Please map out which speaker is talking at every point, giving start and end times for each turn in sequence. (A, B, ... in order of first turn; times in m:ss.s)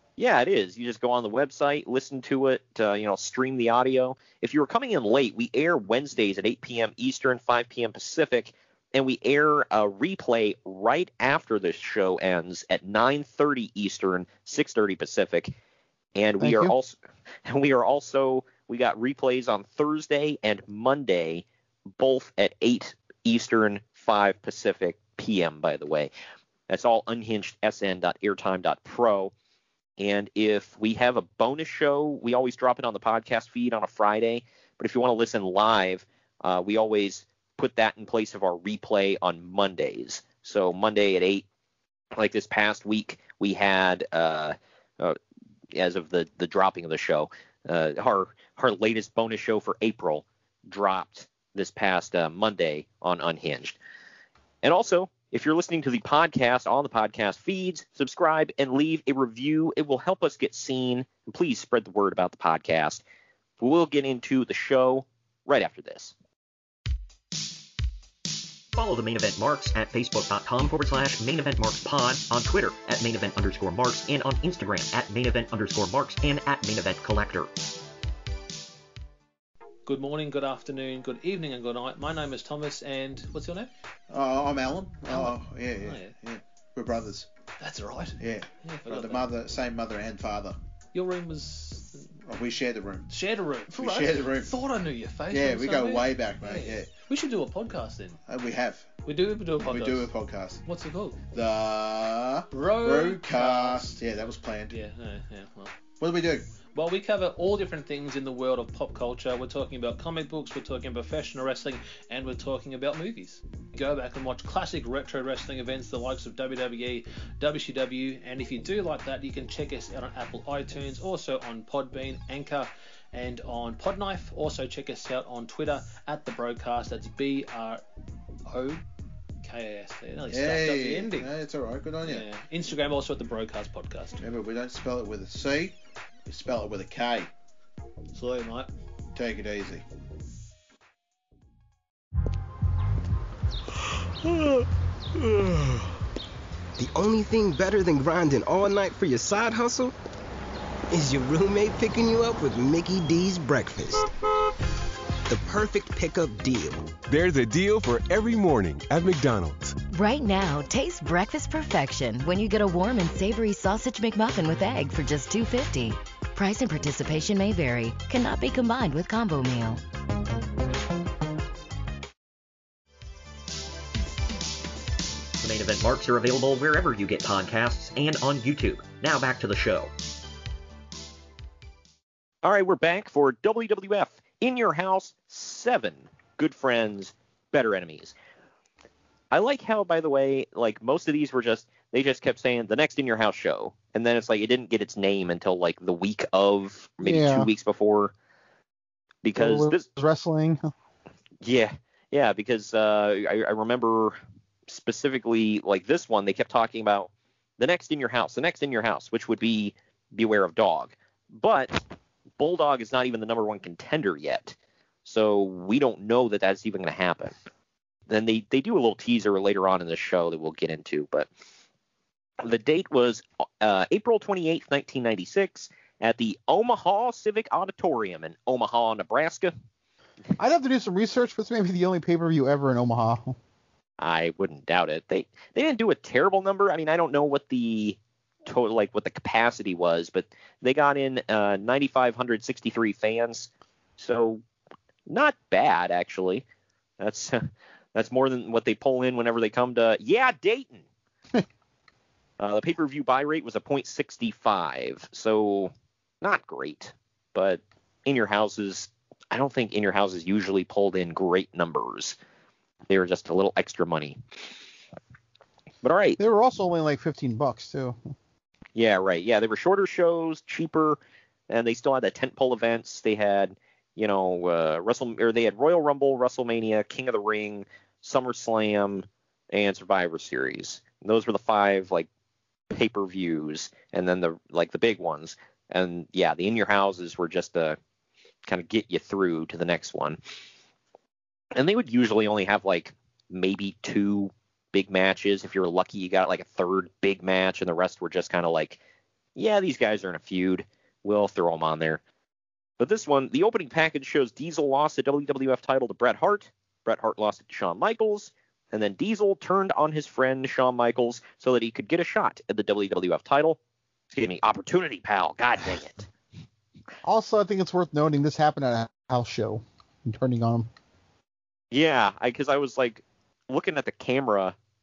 0:00.2-0:15.5 A
0:16.2-0:21.4 A
0:16.4-0:16.8 B
0:22.0-0:26.1 A
0:26.7-0:29.3 A
0:30.0-0:41.4 A
0:42.2-0:45.2 A
0:45.7-0:53.8 A
0:54.6-1:03.0 A
1:03.6-1:06.1 A
1:08.8-1:17.5 C
1:19.9-1:23.7 D
1:24.1-1:27.3 E
1:25.1-1:26.2 D
1:27.6-1:29.3 D
1:28.2-1:30.6 E
1:30.9-1:32.1 D
1:32.2-1:34.6 E
1:33.1-1:38.2 D
1:35.3-1:36.9 E
1:38.3-1:39.0 E
1:39.0-1:40.1 D
1:39.6-1:40.6 E
1:40.6-1:41.2 D
1:41.3-1:44.8 E
1:42.5-1:43.9 D
1:44.7-1:45.8 D
1:46.0-1:46.6 E
1:46.6-2:07.8 D
2:08.5-2:08.8 D
2:09.4-2:11.3 D
2:10.3-2:12.3 E
2:12.0-2:14.2 D
2:14.2-2:17.3 E
2:18.1-2:18.7 D
2:19.1-2:19.9 E
2:26.8-2:30.0 F
2:30.9-2:34.1 F
2:35.3-2:36.9 F
2:37.1-2:39.8 G
2:39.9-2:49.8 H
2:55.4-2:59.9 C
3:02.4-3:08.1 A
3:09.3-3:18.1 A
3:17.0-3:17.5 B
3:19.2-3:19.9 A
3:19.4-3:20.6 B
3:21.4-3:24.2 A
3:24.7-3:31.8 A
3:32.4-3:37.3 A
3:38.1-3:41.3 A
3:42.4-3:49.5 A
3:50.4-3:53.4 B
3:54.0-4:04.4 A
4:05.1-4:06.4 A
4:07.0-4:07.4 A
4:08.0-4:10.8 A
4:12.4-4:22.2 A
4:22.9-4:24.2 A
4:25.8-4:26.2 A
4:26.2-4:28.0 B
4:28.8-4:42.1 A
4:42.7-4:47.8 A
4:48.5-4:50.2 A
4:51.6-4:58.8 A
4:59.4-5:02.0 A
5:02.8-5:13.6 A
5:14.1-5:16.1 A
5:17.0-5:20.7 B
5:21.7-5:24.6 A